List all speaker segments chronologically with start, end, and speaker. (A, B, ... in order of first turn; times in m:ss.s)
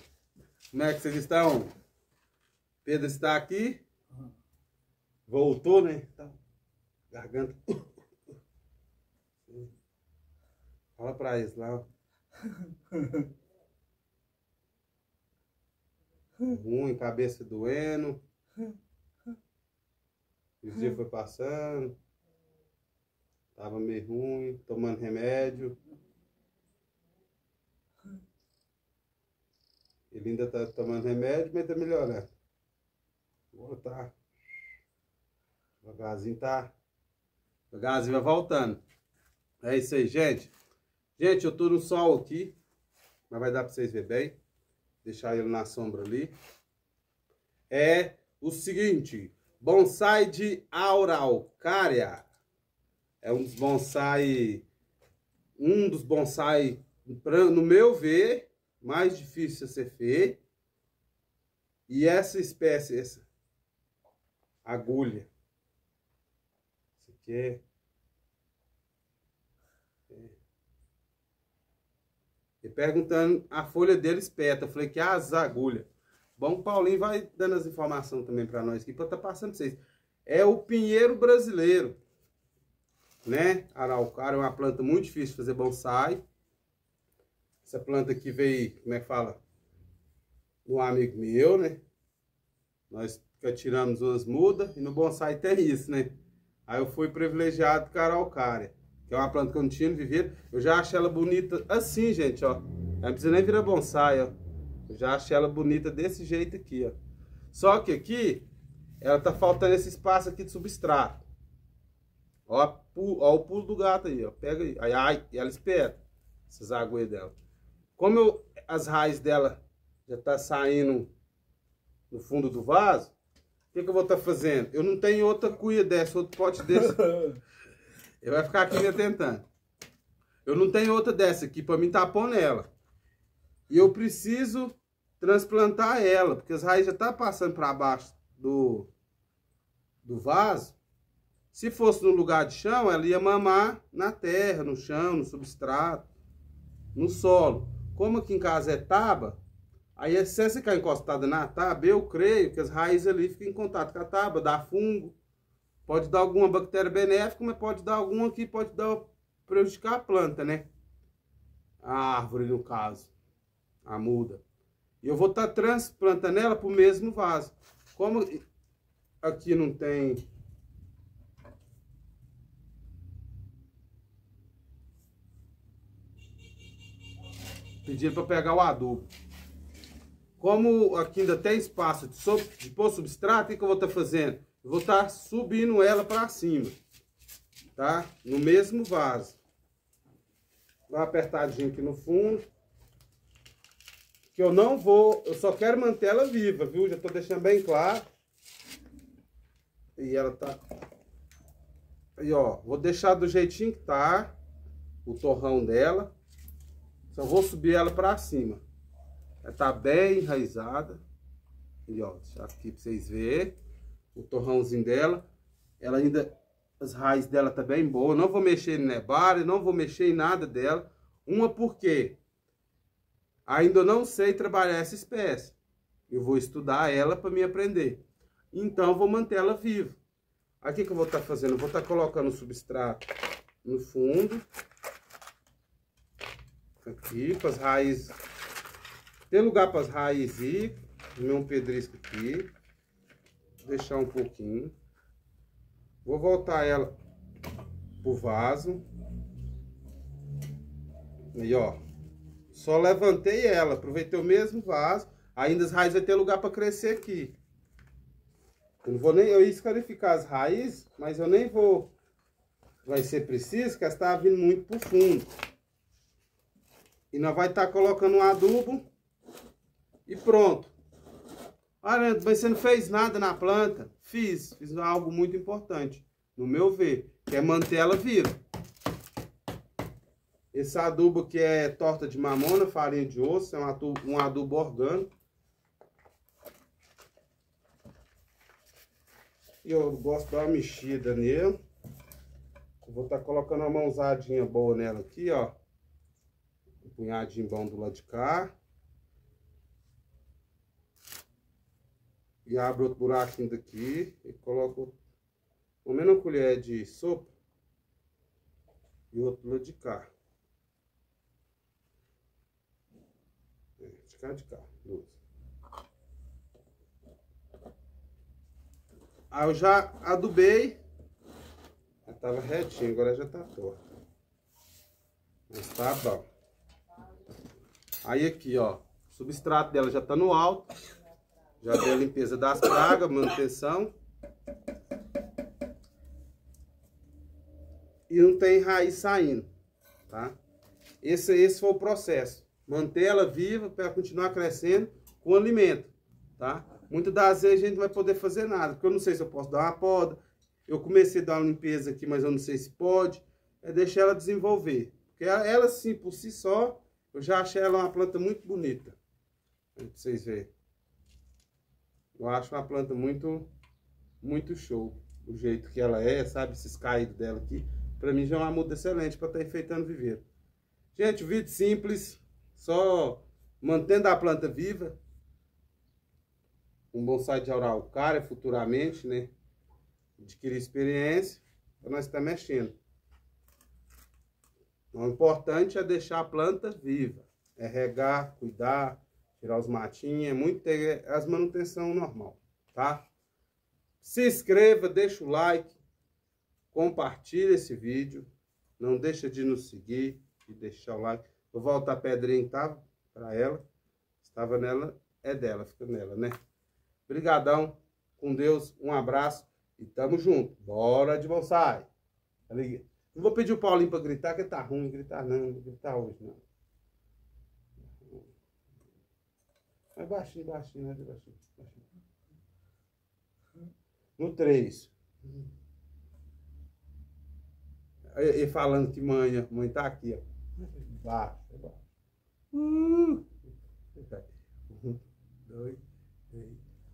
0:00.7-0:01.7 A
0:02.8-0:03.8 A
0:05.3-0:06.4 A
0:07.1-0:07.9 A
0:09.5-0:09.7 A
0:11.0-0:11.9 A
0:16.4-0:18.2 A
0:20.6-0:22.0 A
0:23.6-0:25.8 A
0:30.1-0:32.3 A
0:33.5-0:34.2 A
0:35.8-0:36.7 A
0:37.7-0:38.8 A
0:39.6-0:40.5 A
0:41.2-0:42.6 A
0:43.3-0:44.4 A
0:45.0-0:46.3 A
0:47.7-0:52.3 A
0:53.2-0:54.7 A
0:55.6-1:00.4 A
1:01.9-1:03.3 A
1:04.6-1:05.3 A
1:07.0-1:07.6 A
1:10.1-1:10.4 A
1:12.6-1:22.0 A
1:23.2-1:26.2 A
1:27.6-1:29.4 A
1:30.6-1:31.8 A
1:32.9-1:36.2 A
1:36.7-1:44.3 A
1:44.9-1:47.0 A
1:47.5-1:48.5 A
1:49.0-1:51.2 A
1:52.5-1:57.4 A
1:58.0-2:01.1 A
2:02.1-2:03.1 A
2:03.7-2:07.4 A
2:08.2-2:09.5 A
2:10.4-2:12.7 A
2:13.7-2:18.9 A
2:20.0-2:20.8 A
2:21.5-2:26.1 A
2:26.9-2:29.4 A
2:30.0-2:35.2 A
2:35.8-2:40.7 A
2:41.8-2:43.1 A
2:43.8-2:44.4 A
2:45.0-2:48.4 A
2:49.2-2:50.2 A
2:57.8-2:59.1 A
3:00.4-3:06.8 A
3:07.8-3:09.4 A
3:10.9-3:12.4 A
3:14.3-3:18.1 A
3:20.0-3:20.6 A
3:22.2-3:24.3 A
3:25.0-3:26.1 A
3:27.1-3:28.6 A
3:29.4-3:31.0 A
3:31.9-3:33.6 A
3:34.1-3:35.2 A
3:35.8-3:42.2 A
3:43.5-3:45.6 A
3:46.1-3:50.0 A
3:50.6-3:53.1 A
3:53.6-3:54.4 A
3:56.8-3:58.2 A
3:59.3-4:02.5 A
4:03.6-4:04.7 A
4:06.0-4:06.9 A
4:08.0-4:08.8 A
4:11.3-4:11.8 A
4:12.5-4:17.4 A
4:18.8-4:21.9 A
4:22.8-4:25.3 A
4:27.1-4:28.9 A
4:30.1-4:30.8 A
4:31.8-4:38.4 A
4:40.5-4:45.1 A
4:49.6-4:51.6 A
4:52.8-4:55.6 A
4:56.8-4:58.5 A
5:02.4-5:05.0 A
5:05.8-5:07.3 A
5:09.1-5:10.1 A
5:13.8-5:15.2 A
5:19.3-5:20.8 A
5:22.1-5:23.8 A
5:25.5-5:26.3 A
5:28.0-5:30.7 A
5:31.6-5:33.9 A
5:38.1-5:39.5 A
5:40.1-5:40.4 A
5:41.0-5:59.0 A
5:59.8-6:00.5 A
6:02.2-6:03.5 A
6:04.2-6:10.2 A
6:10.9-6:15.0 A
6:16.9-6:19.3 A
6:20.2-6:22.8 A
6:24.9-6:33.1 A
6:34.0-6:35.8 A
6:36.7-6:43.6 A
6:44.2-6:46.4 A
6:47.1-6:51.9 A
6:52.5-6:56.4 A
6:57.9-6:58.3 A
7:00.0-7:01.9 A
7:04.2-7:05.4 A
7:08.1-7:11.8 A
7:12.5-7:13.3 A
7:14.0-7:16.6 A